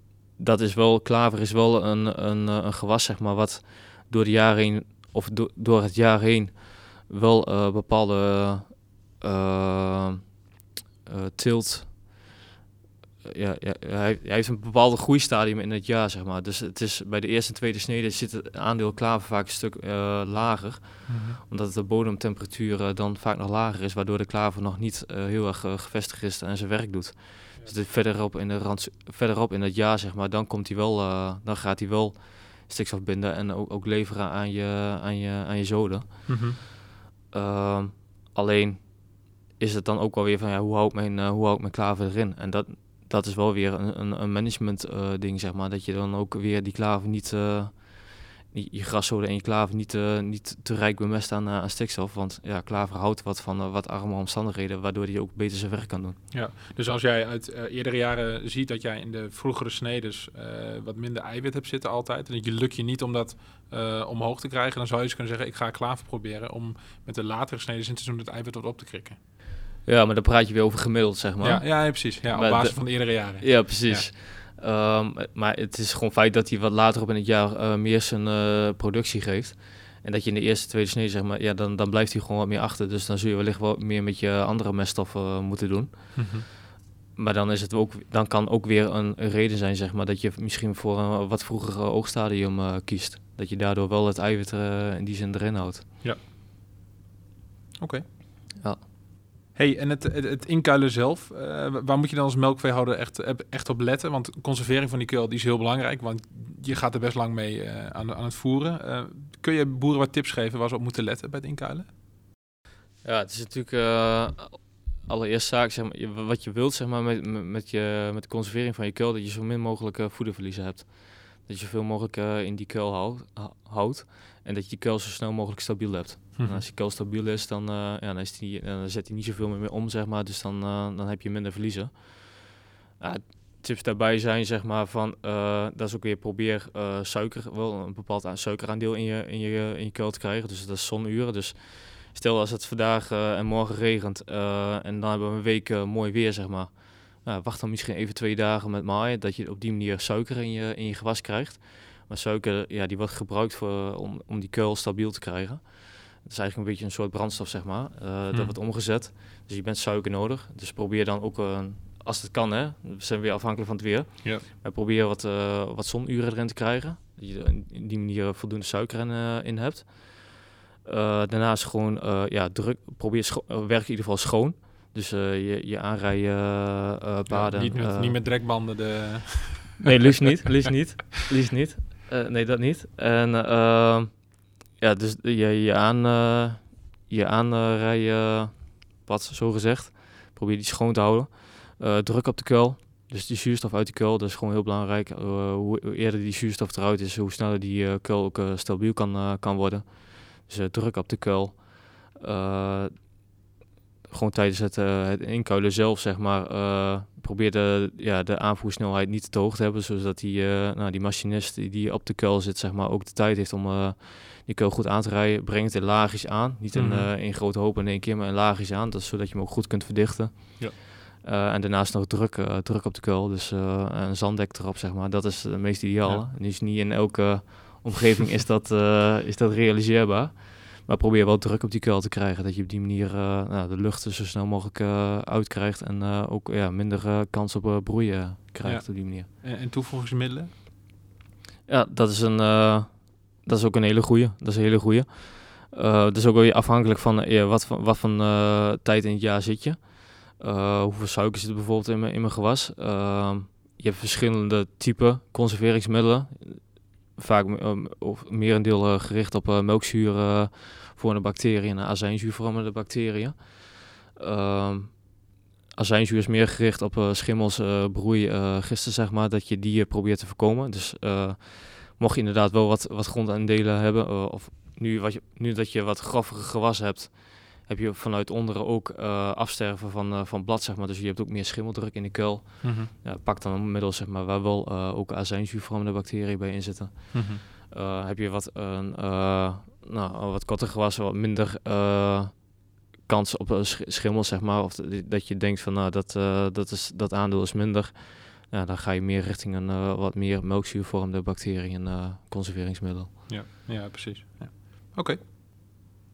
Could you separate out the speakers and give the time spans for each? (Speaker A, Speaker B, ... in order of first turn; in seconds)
Speaker A: 0.3-10.3, 11.1-12.2, 13.2-36.3, 37.3-38.9, 39.6-56.2, 69.8-72.8, 73.4-86.2, 87.2-95.8, 113.0-132.4, 133.0-170.3, 170.8-178.1, 179.8-202.9, 204.1-239.3, 241.7-256.6, 257.1-265.1, 265.8-292.5, 293.1-303.1
Speaker B: 21.1-21.4, 36.3-36.6, 56.3-69.2, 71.4-74.1, 86.1-86.5, 99.5-111.9, 126.4-126.6, 177.3-179.9, 216.7-217.1, 238.6-240.5, 282.6-282.9, 287.1-287.4, 303.3-305.2